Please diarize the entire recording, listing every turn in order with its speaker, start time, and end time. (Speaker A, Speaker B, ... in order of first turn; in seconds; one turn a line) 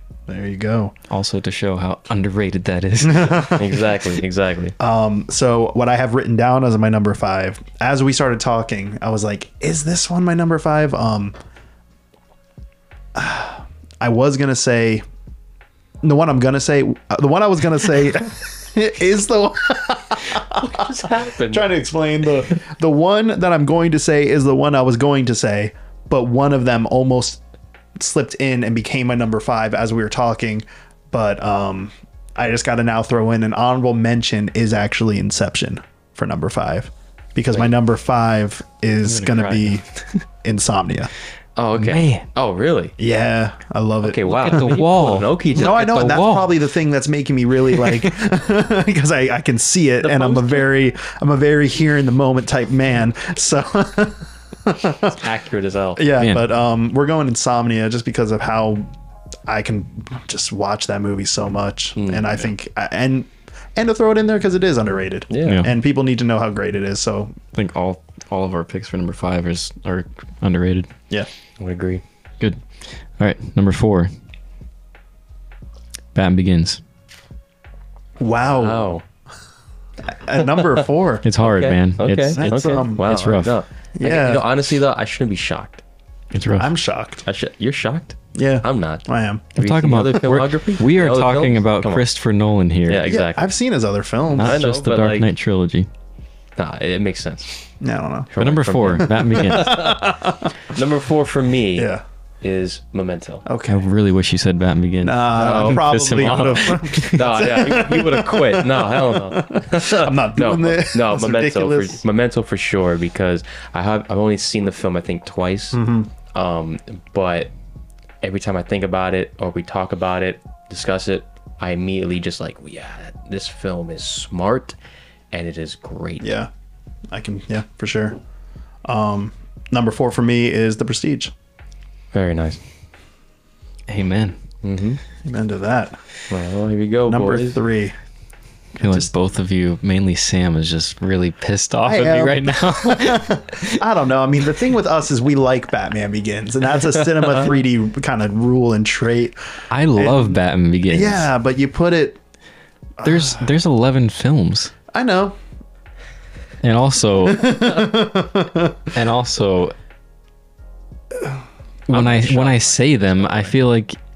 Speaker A: 0.3-0.9
Speaker B: 1.1-3.9
Speaker A: 3.0-3.7
Speaker C: 3.5-4.8
Speaker A: 4.8-11.3
Speaker A: 13.2-15.0
Speaker A: 16.0-27.4
Speaker C: 20.5-21.7
Speaker A: 28.0-39.9
Speaker B: 39.0-40.2
Speaker A: 40.4-41.1
Speaker C: 41.6-43.0
Speaker B: 41.8-42.3
Speaker A: 43.0-44.8
Speaker C: 44.0-46.5
Speaker B: 44.3-46.5
Speaker A: 45.5-55.2
Speaker C: 50.0-50.7
Speaker C: 55.1-56.1
Speaker A: 56.0-58.9
Speaker B: 56.2-56.5
Speaker A: 59.5-67.3
Speaker C: 62.0-62.3
Speaker C: 65.3-65.6
Speaker B: 65.4-65.7
Speaker B: 67.5-70.9
Speaker C: 71.6-72.0
Speaker B: 72.4-74.1
Speaker B: 76.2-76.8
Speaker A: 78.2-79.0
Speaker C: 78.5-79.0
Speaker A: 80.0-81.2
Speaker C: 80.4-80.8
Speaker B: 81.2-83.5
Speaker C: 81.4-85.8
Speaker A: 82.3-83.1
Speaker A: 84.0-84.5
Speaker B: 86.3-86.7
Speaker A: 86.6-87.2
Speaker C: 87.3-92.0
Speaker A: 88.3-89.5
Speaker B: 89.6-93.1
Speaker C: 92.9-93.5
Speaker A: 93.1-94.6
Speaker B: 94.3-95.9
Speaker C: 94.4-95.3
Speaker C: 96.6-97.7
Speaker A: 97.8-98.3
Speaker C: 98.3-103.5
Speaker B: 98.4-100.0
Speaker A: 99.3-100.5
Speaker A: 101.8-102.0
Speaker A: 103.5-103.8
Speaker B: 103.7-107.4
Speaker A: 105.0-112.0
Speaker C: 105.4-117.5
Speaker A: 115.7-116.1
Speaker C: 118.2-124.8
Speaker C: 125.3-126.3
Speaker A: 126.2-126.5
Speaker A: 127.1-128.2
Speaker A: 128.8-131.3
Speaker C: 132.1-132.6
Speaker B: 133.9-134.4
Speaker C: 134.6-135.0
Speaker A: 135.2-136.0
Speaker C: 136.3-137.6
Speaker A: 137.1-137.9
Speaker B: 138.8-143.8
Speaker A: 138.8-139.1
Speaker A: 141.8-149.4
Speaker B: 149.7-151.3
Speaker A: 149.9-152.2
Speaker A: 153.0-153.5
Speaker B: 153.0-154.7
Speaker A: 154.9-155.4
Speaker B: 156.6-157.9
Speaker A: 157.2-158.9
Speaker B: 158.9-159.7
Speaker B: 161.9-164.0
Speaker C: 161.9-163.6